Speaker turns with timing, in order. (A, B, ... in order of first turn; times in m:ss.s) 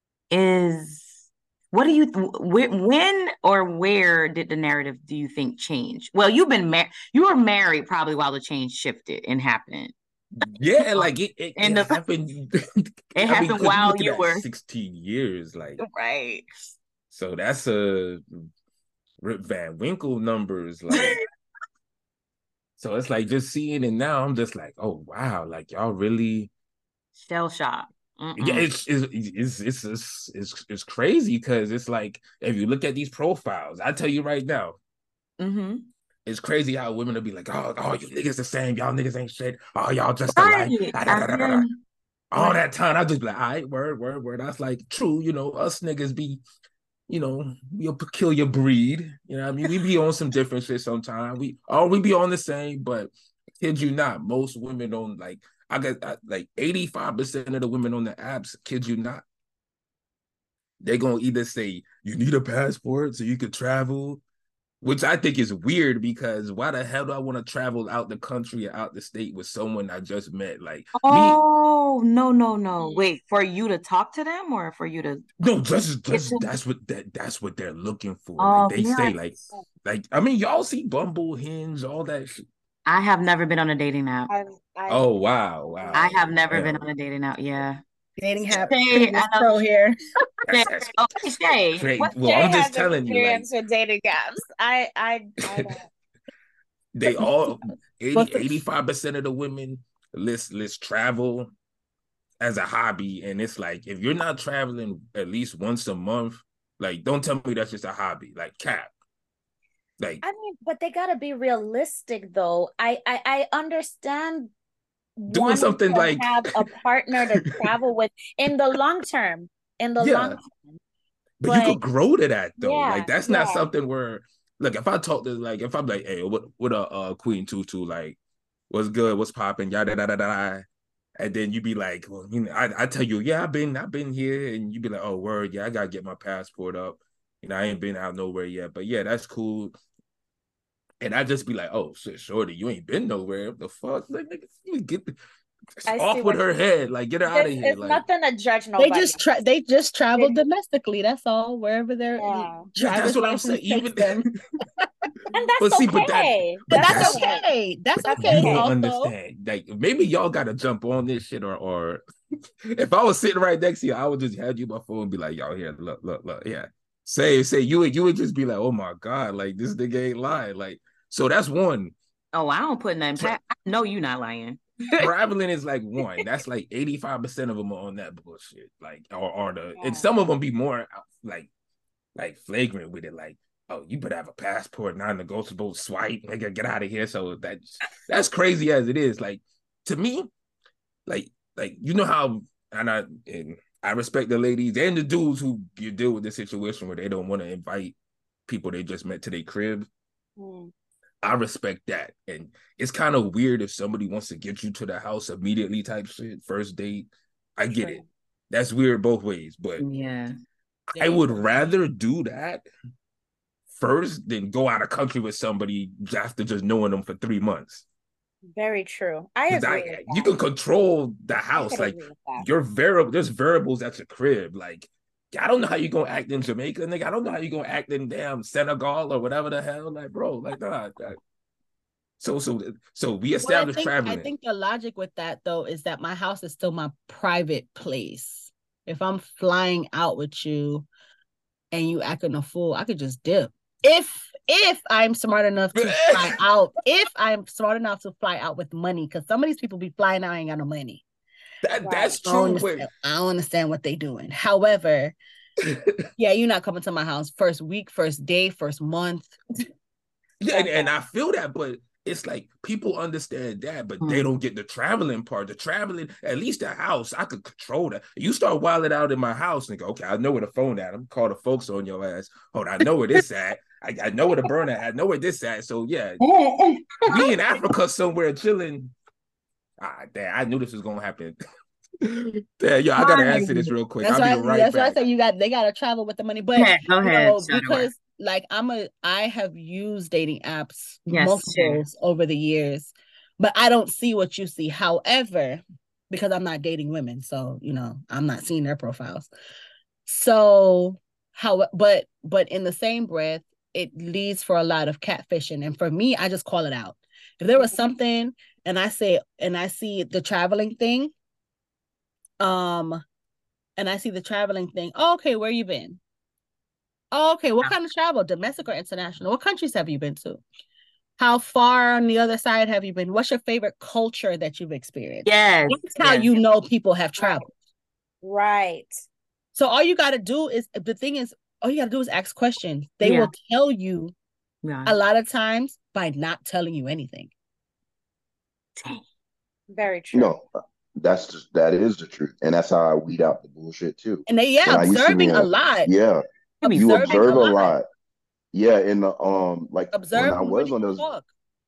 0:00.3-0:09.9 A
0:10.4-0:12.6 B
0:10.8-0:12.0 A
0:13.1-0:15.8 B
0:13.2-0:14.5 A
0:15.8-0:16.4 A
0:17.1-0:18.2 B
0:19.2-0:21.2 B
0:22.8-0:26.5 B
0:27.2-0:28.7 A
0:28.4-0:34.8 B
0:35.4-0:35.9 A
0:36.3-0:41.6 B
0:40.4-0:41.7 A
0:42.3-0:46.4 B
0:47.1-0:59.2 B
1:00.8-1:04.2 B
1:04.8-1:11.4 B
1:11.0-1:15.2 A
1:12.8-1:13.1 C
1:15.4-1:22.4 B
1:16.1-1:16.4 A
1:18.4-1:19.2 A
1:22.9-1:24.3 A
1:24.3-1:25.1 C
1:24.9-1:26.9 B
1:25.6-1:26.2 C
1:25.9-1:27.8 A
1:28.2-1:30.0 D
1:28.7-1:29.6 A
1:30.5-1:31.0 B
1:30.5-1:31.9 A
1:31.8-1:33.4 B
1:32.0-1:35.9 C
1:36.9-1:41.5 B
1:38.1-1:38.6 D
1:42.4-1:48.9 B
1:50.2-1:54.5 C
1:55.2-2:00.8 C
1:55.3-1:56.5 B
2:00.0-2:00.4 B
2:01.4-2:08.2 B
2:01.4-2:01.8 C
2:02.6-2:03.7 C
2:08.7-2:10.6 B
2:11.2-2:19.8 B
2:21.0-2:25.2 B
2:25.9-2:28.0 B
2:25.9-2:26.5 C
2:27.3-2:29.2 C
2:28.8-2:34.2 D
2:32.2-2:32.6 C
2:32.8-2:34.2 B
2:34.8-2:35.1 D
2:35.3-2:37.5 C
2:35.6-2:37.2 B
2:36.7-2:39.1 D
2:38.0-2:38.7 C
2:38.2-2:42.0 B
2:42.7-2:51.9 B
2:52.3-2:55.1 A
2:55.0-3:01.5 B
2:59.8-3:00.1 A
3:02.2-3:10.3 B
3:11.1-3:18.0 B
3:18.5-3:19.9 B
3:20.4-3:20.7 C
3:21.2-3:29.8 B
3:27.7-3:28.0 C
3:29.8-3:30.3 A
3:31.0-3:32.6 B
3:33.7-3:37.8 B
3:38.5-3:40.3 C
3:39.5-3:51.2 B
3:41.6-3:42.5 C
3:52.2-3:54.3 B
3:53.4-4:00.9 D
4:01.7-4:11.0 D
4:05.8-4:06.4 B
4:11.6-4:12.9 B
4:11.8-4:12.2 C
4:12.2-4:15.2 D
4:15.6-4:16.1 B
4:16.2-4:19.4 D
4:20.4-4:36.2 B
4:20.5-4:20.9 C
4:37.1-4:38.9 B
4:39.8-4:41.4 B
4:42.0-4:45.0 B
4:44.0-4:59.3 D
4:46.6-4:47.9 A
4:51.1-4:51.8 A
5:00.1-5:11.1 D
5:12.4-5:13.0 D
5:13.8-5:16.0 D
5:17.1-5:20.4 D
5:21.2-5:27.5 D
5:25.3-5:26.3 A
5:27.2-5:27.5 C
5:28.2-5:28.9 C
5:29.5-5:34.1 D
5:33.0-5:33.3 A
5:34.6-5:35.0 A
5:34.8-5:37.3 D
5:38.8-5:39.0 A
5:39.7-5:40.4 C
5:40.1-5:46.2 E
5:44.3-5:45.9 D
5:46.6-5:47.7 D
5:46.6-5:47.7 A
5:46.7-5:47.8 E
5:48.5-5:51.1 E
5:49.9-5:51.3 D